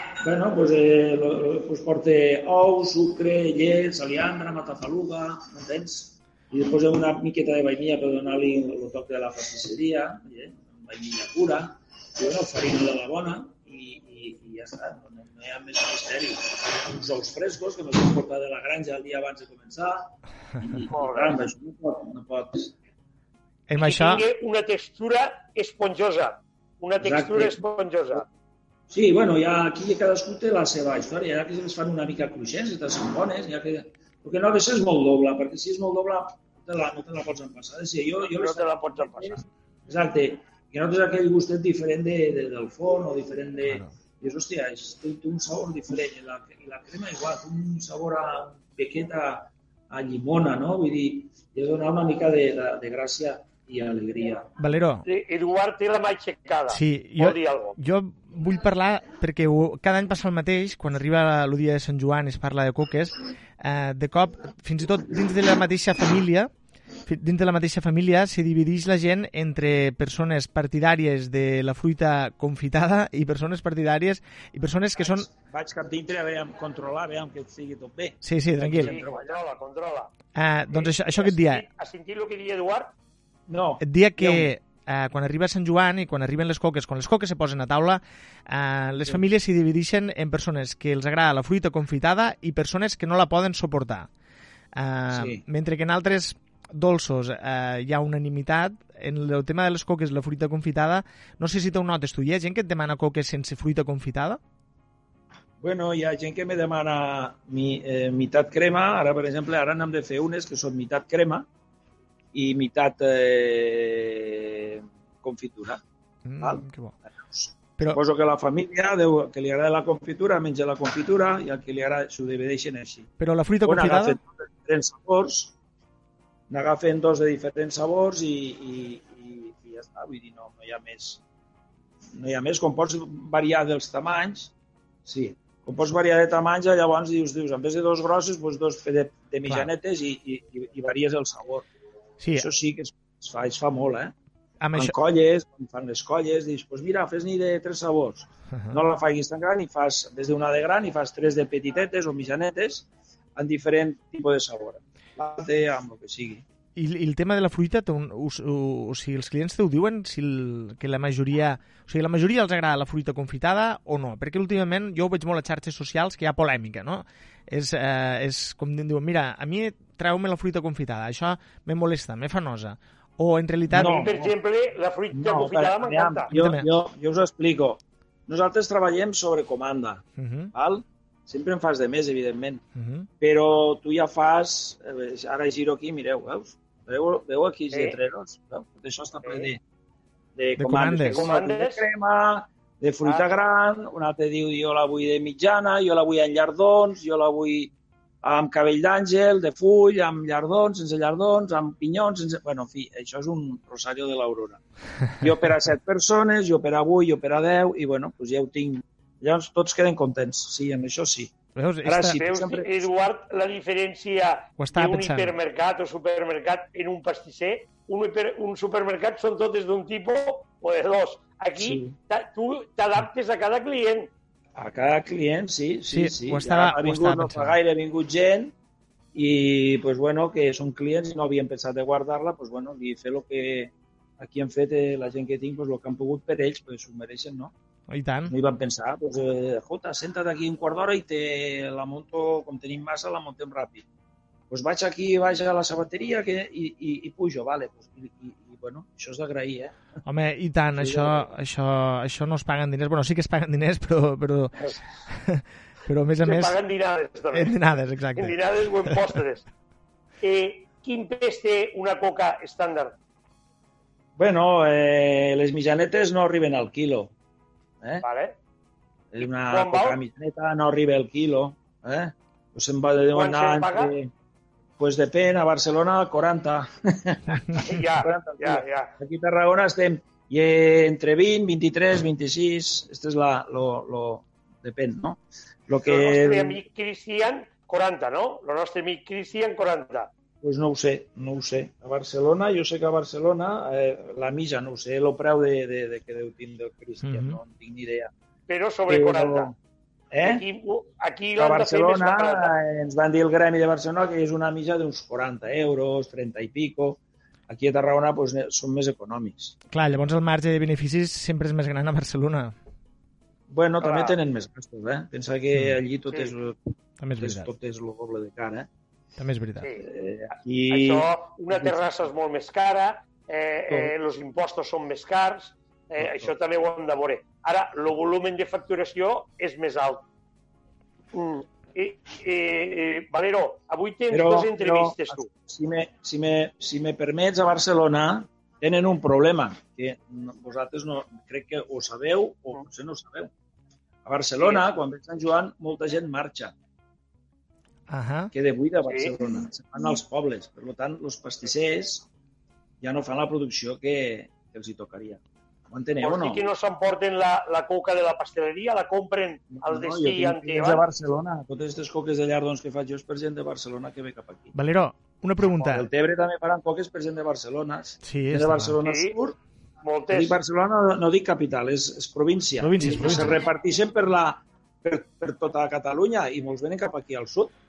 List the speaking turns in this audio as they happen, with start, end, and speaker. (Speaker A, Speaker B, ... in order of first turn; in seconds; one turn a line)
Speaker A: 0.2-22.8
Speaker B: 20.9-21.4
Speaker C: 23.7-24.2
Speaker B: 23.8-28.2
Speaker A: 27.0-27.6
Speaker A: 28.9-54.5
Speaker B: 38.3-39.4
Speaker C: 54.6-55.0
Speaker B: 55.0-57.8
Speaker C: 56.7-66.5
Speaker C: 67.0-75.3
Speaker A: 75.0-79.4
Speaker C: 78.2-79.0
Speaker B: 78.8-80.1
Speaker C: 80.3-81.7
Speaker B: 80.7-82.9
Speaker A: 83.5-84.5
Speaker C: 83.8-94.1
Speaker C: 94.8-104.4
Speaker A: 95.1-95.4
Speaker A: 105.6-111.5
Speaker A: 112.3-115.8
Speaker C: 116.2-117.0
Speaker A: 117.2-123.1
Speaker C: 123.2-124.2
Speaker A: 123.7-125.5
Speaker A: 126.5-131.2
Speaker A: 132.1-134.5
Speaker A: 135.1-141.7
Speaker C: 142.2-142.5
Speaker A: 142.3-144.1
Speaker C: 144.6-145.0
Speaker A: 144.7-156.4
Speaker C: 156.8-174.1
Speaker A: 173.7-174.3
Speaker B: 173.8-176.3
Speaker A: 175.1-182.6
Speaker C: 176.3-176.7
Speaker C: 180.2-180.5
Speaker C: 182.8-183.1
Speaker A: 183.2-189.6
Speaker B: 189.2-189.5
Speaker A: 190.4-204.6
Speaker C: 190.6-191.3
Speaker B: 191.1-191.8
Speaker A: 205.1-212.9
Speaker C: 211.6-212.2
Speaker B: 212.2-224.1
Speaker C: 214.6-215.4
Speaker A: 221.6-222.0
Speaker A: 224.6-228.5
Speaker C: 225.9-227.6
Speaker A: 229.1-237.5
Speaker C: 237.9-238.3
Speaker A: 238.3-243.8
Speaker A: 244.5-249.8
Speaker C: 250.1-254.6
Speaker A: 250.8-251.3
Speaker C: 255.1-256.6
Speaker B: 256.2-257.6
Speaker C: 257.3-259.0
Speaker B: 258.2-259.5
Speaker B: 260.2-262.9
Speaker A: 264.2-267.1
Speaker B: 268.0-268.4
Speaker A: 269.1-274.1
Speaker B: 269.2-270.0
Speaker B: 273.1-273.9
Speaker A: 274.8-286.6
Speaker B: 277.6-278.9
Speaker B: 285.9-290.1
Speaker A: 290.4-298.1
Speaker C: 297.0-297.4
Speaker B: 298.5-299.5
Speaker A: 298.9-299.6
Speaker A: 300.1-300.4
Speaker B: 300.2-302.5
Speaker A: 301.4-309.6
Speaker C: 309.7-312.6
Speaker A: 313.5-316.6
Speaker B: 313.8-314.2
Speaker C: 317.0-317.5
Speaker A: 317.2-318.7
Speaker C: 319.2-319.7
Speaker A: 319.8-321.8
Speaker B: 320.7-330.1
Speaker A: 326.0-326.3
Speaker B: 331.1-335.3
Speaker A: 334.1-343.3
Speaker A: 344.1-346.5
Speaker C: 347.9-348.3
Speaker A: 348.3-352.1
Speaker B: 348.9-349.1
Speaker A: 352.8-356.4
Speaker B: 356.0-360.8
Speaker A: 359.5-364.5
Speaker C: 364.5-365.9
Speaker A: 365.6-369.4
Speaker C: 368.0-368.8
Speaker B: 368.8-369.1
Speaker B: 369.8-370.4
Speaker A: 370.1-377.5
Speaker C: 372.6-373.4